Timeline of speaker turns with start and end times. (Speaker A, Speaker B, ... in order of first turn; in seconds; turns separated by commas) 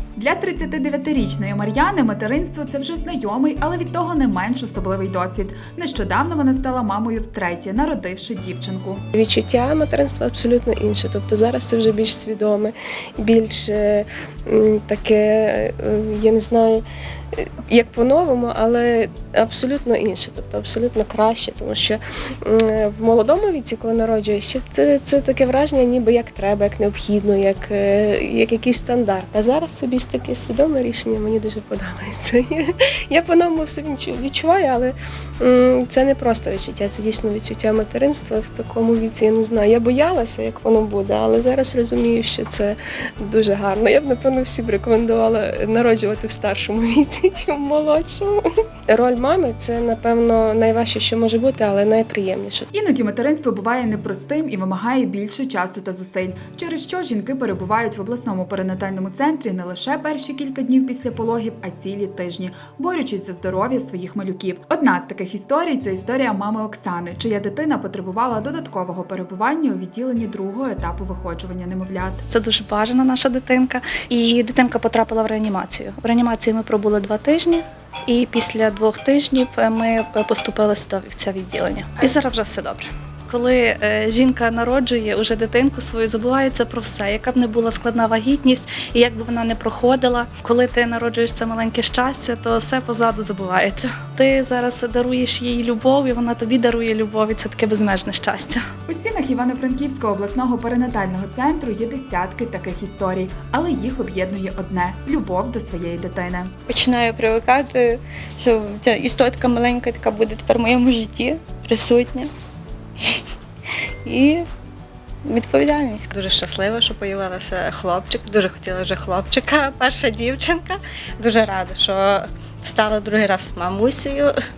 Speaker A: 0.2-9.0, Speaker B: 9.2-52.7, Speaker A: 52.7-72.2, Speaker C: 72.3-98.6, Speaker A: 98.9-106.5, Speaker D: 106.7-107.9, Speaker D: 108.4-112.2, Speaker D: 114.1-114.4, Speaker D: 115.3-115.9, Speaker E: 116.1-124.3